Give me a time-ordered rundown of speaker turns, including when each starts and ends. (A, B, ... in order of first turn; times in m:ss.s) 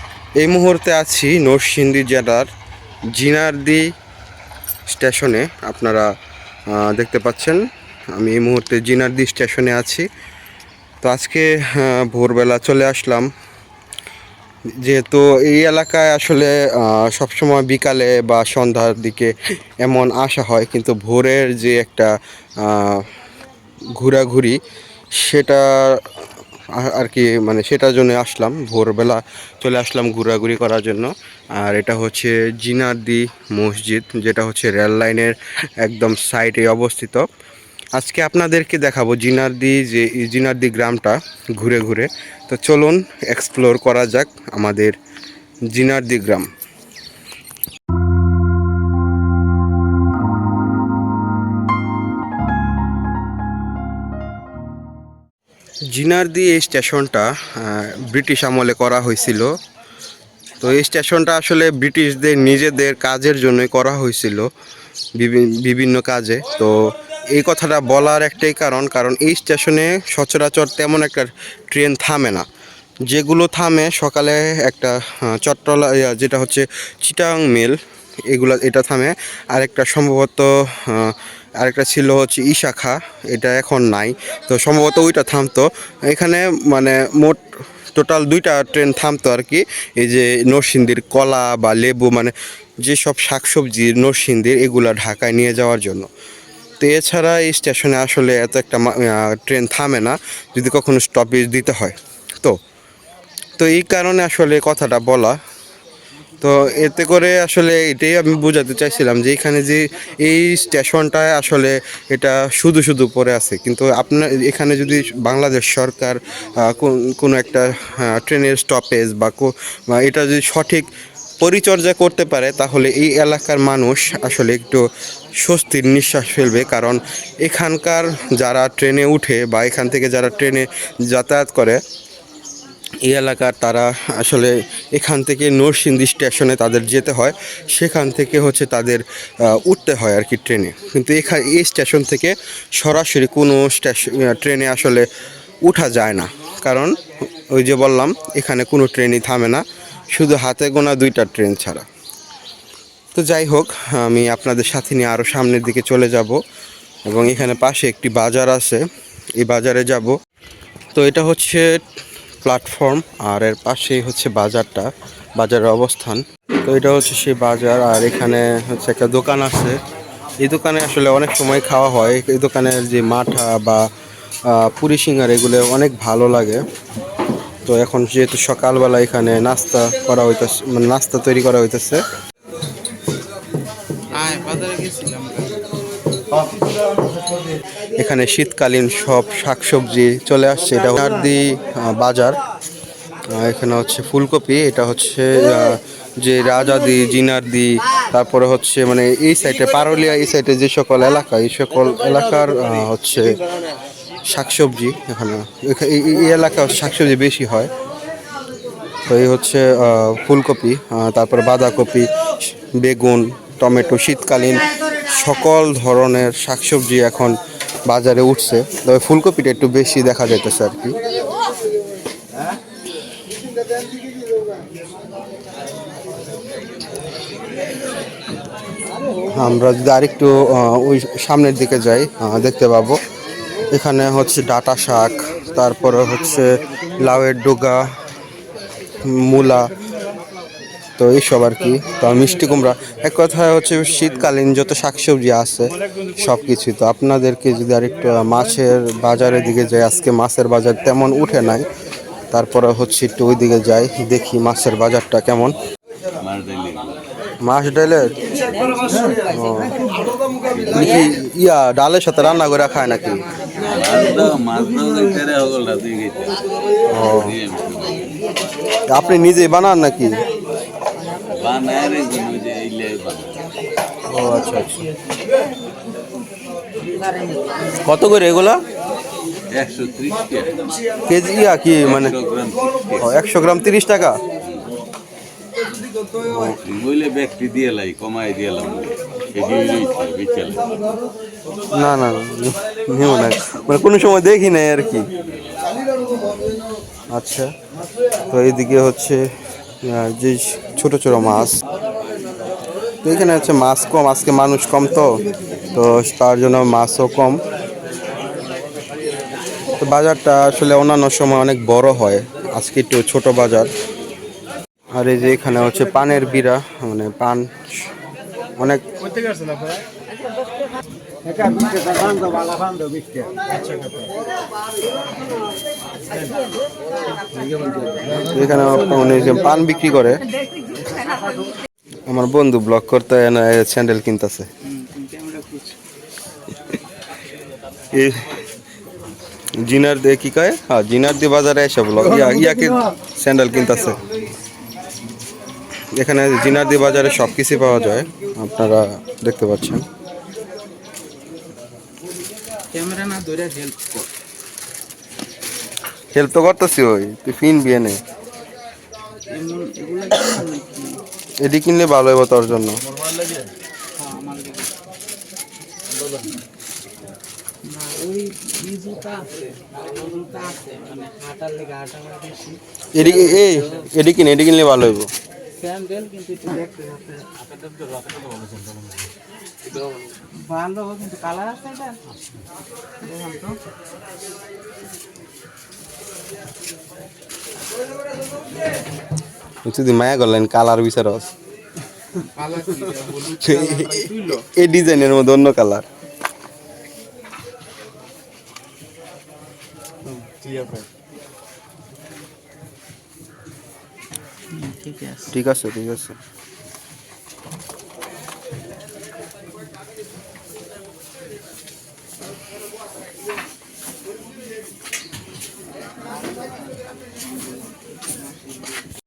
0:00.4-0:02.5 A
0:03.1-0:03.9 A
0:04.9-0:06.1 A
0:06.7-0:10.1 A
0:11.0-0:13.3 A
0:14.8-0:23.1 A
0:23.9-0:24.6 A
0:25.1-0:26.2 A
0:26.7-0:37.3 A
0:38.0-0:45.0 A
0:45.7-0:46.5 A
0:55.9-0:59.5 A
1:00.6-1:04.5 A
1:05.2-1:12.5 A
1:13.1-1:17.8 A
1:18.3-1:36.1 A
1:36.8-1:42.6 A
1:43.6-1:45.4 A
1:46.4-2:00.9 A
2:01.4-2:04.8 A
2:05.4-2:11.8 A
2:13.0-2:25.1 A
2:25.6-2:31.9 A
2:33.1-2:36.4 A
2:37.1-2:38.8 A
2:39.4-2:40.2 A
2:40.9-2:41.8 A
2:42.4-2:49.8 A
2:50.4-2:53.9 A
2:54.4-2:56.6 A
2:57.7-3:02.0 A
3:04.1-3:05.7 B
3:08.0-3:12.4 A
3:13.3-3:23.4 A
3:24.3-3:27.7 A
3:29.1-3:41.0 A
3:49.3-3:53.0 A
3:53.7-3:57.9 A
3:59.0-3:59.7 A
4:01.0-4:11.7 A
4:12.3-4:15.6 A
4:16.2-4:17.0 C
4:17.4-4:18.3 A
4:19.2-4:19.8 A
4:20.4-4:20.8 C
4:20.7-4:23.2 A
4:23.6-4:26.4 C
4:26.9-4:27.4 A
4:26.9-4:28.1 C
4:28.9-4:30.2 A
4:31.2-4:33.5 C
4:34.1-4:34.9 A
4:37.8-4:38.6 A
4:39.5-4:40.7 C
4:41.1-4:42.2 A
4:41.8-4:43.1 C
4:43.0-4:44.2 A
4:46.3-4:46.6 A
4:46.6-4:50.8 C
4:51.7-4:55.1 A
4:57.1-4:57.5 A
4:58.3-4:59.3 A
4:59.8-5:01.6 A
5:03.0-5:05.2 A
5:05.7-5:07.4 A
5:09.8-5:13.7 A
5:14.9-5:17.9 A
5:18.6-5:18.8 A
5:28.3-5:30.2 A
5:32.1-5:34.5 A
5:34.6-5:35.8 B
5:37.9-5:38.4 A
5:39.6-5:44.0 A
5:45.9-5:49.8 A
5:52.7-5:54.1 B
5:56.1-5:58.0 A
5:59.3-6:01.0 B
6:01.4-6:02.8 A
6:04.0-6:04.7 B
6:07.6-6:13.8 B
6:12.9-6:15.1 A
6:15.6-6:18.0 B
6:19.7-6:22.0 B
6:23.0-6:23.6 B
6:29.6-6:31.3 A
6:32.1-6:34.5 B
6:33.4-6:35.8 A
6:40.4-6:40.7 B
6:44.5-6:45.4 B
6:45.3-6:46.2 A